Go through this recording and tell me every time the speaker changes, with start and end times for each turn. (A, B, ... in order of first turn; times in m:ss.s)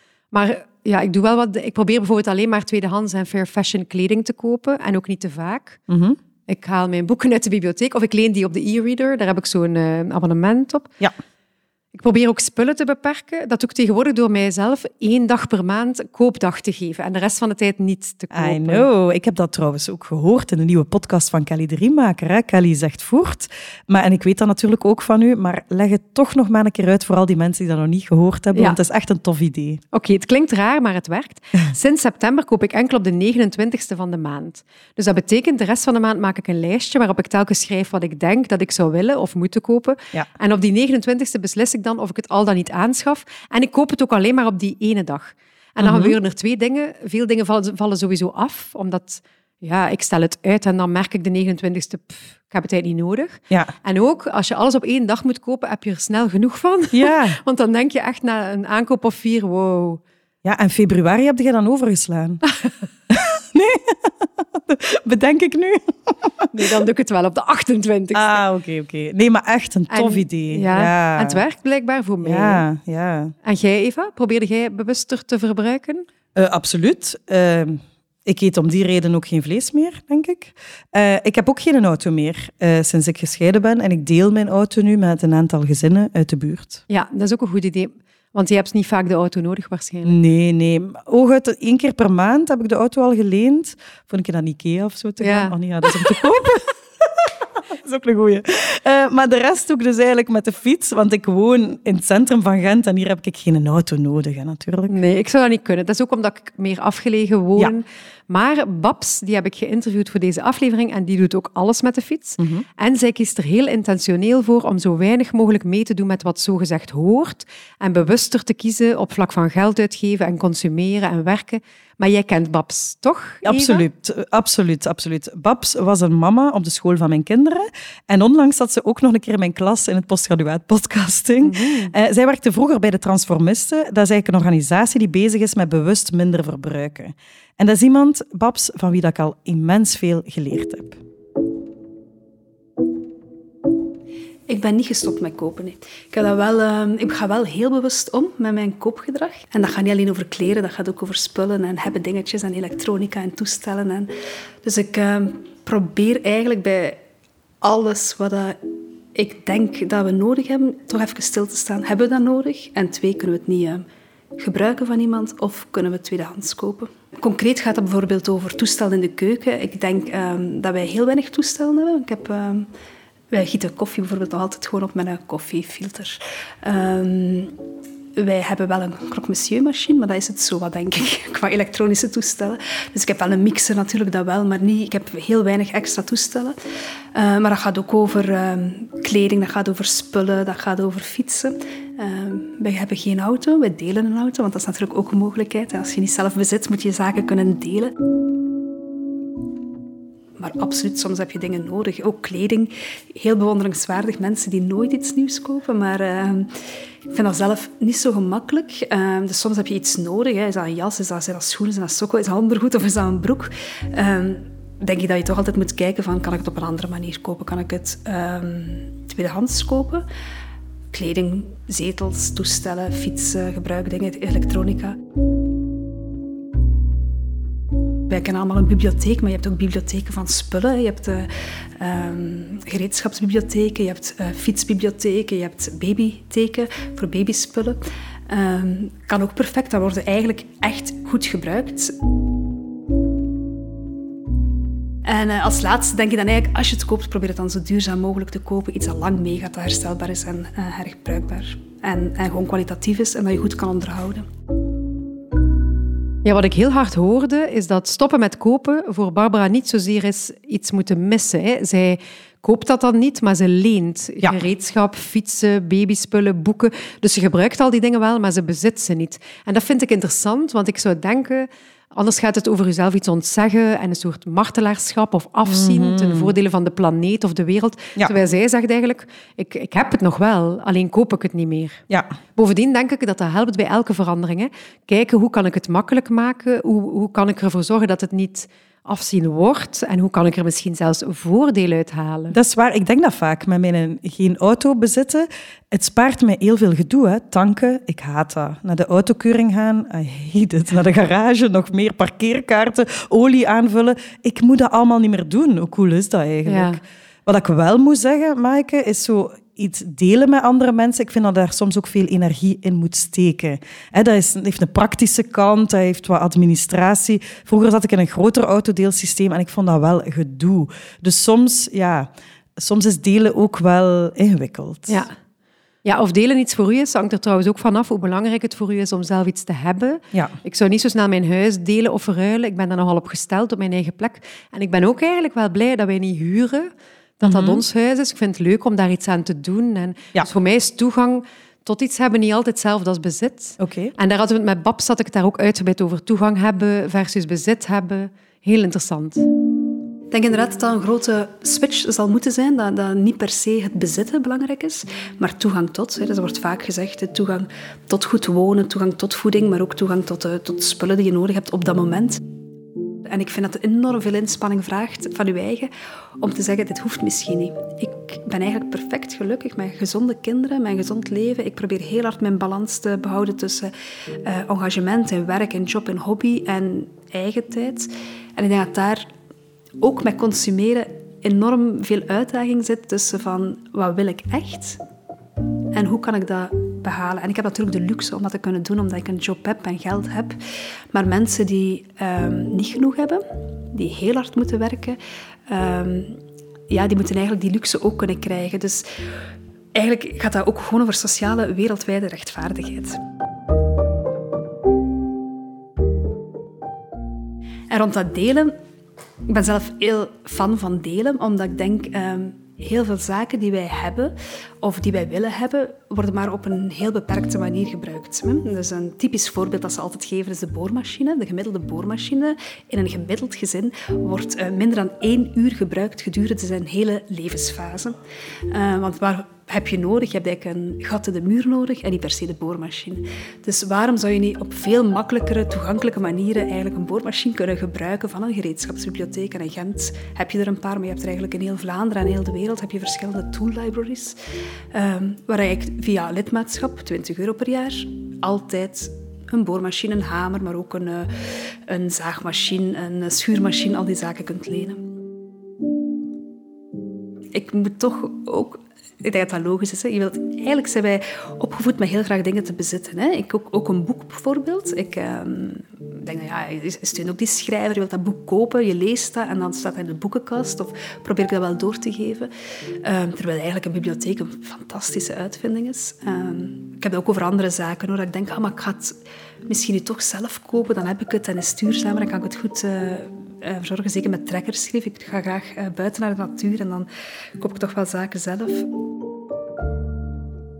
0:00.3-0:05.8 A
0:05.9-0:06.2 B
0:06.5-0:10.9 A
0:11.9-0:18.9 A
0:18.3-0:29.8 B
0:29.9-1:00.0 A
0:45.8-0:46.2 B
0:56.9-0:57.4 B
1:00.4-1:02.4 B
1:03.1-1:06.5 B
1:06.5-1:08.4 A
1:08.1-1:11.4 B
1:09.9-1:12.6 A
1:12.2-1:13.3 B
1:13.4-1:16.1 A
1:16.4-1:26.8 B
1:26.9-1:30.2 A
1:30.0-1:44.9 B
1:35.2-1:35.6 A
1:44.9-2:03.8 A
1:52.4-1:52.6 B
2:03.4-2:21.0 B
2:11.4-2:11.9 A
2:24.5-2:34.1 C
2:34.6-2:37.0 C
2:37.6-2:38.6 C
2:39.2-2:43.8 C
2:44.4-2:52.7 C
2:53.3-2:57.6 C
2:58.2-3:06.6 C
3:07.1-3:17.9 C
3:20.4-3:26.5 C
3:27.1-3:40.1 C
3:40.9-3:45.0 C
3:48.1-4:01.9 C
4:05.0-4:14.3 C
4:16.2-4:41.8 A
4:35.5-4:36.3 B
4:42.4-4:52.4 A
4:52.3-5:25.0 B
5:06.5-5:06.8 A
5:24.9-5:25.1 A
5:25.8-5:49.2 A
5:37.2-5:37.6 B
5:43.6-5:43.9 B
5:50.1-6:02.2 C
6:03.0-6:13.7 C
6:14.2-6:19.1 C
6:19.8-6:24.8 C
6:25.7-6:30.4 C
6:30.9-6:38.8 C
6:39.7-6:43.0 C
6:47.7-6:48.6 C
6:49.3-7:24.2 C
7:24.7-7:31.1 C
7:31.7-7:34.9 C
7:37.3-7:52.3 C
7:52.8-8:08.7 C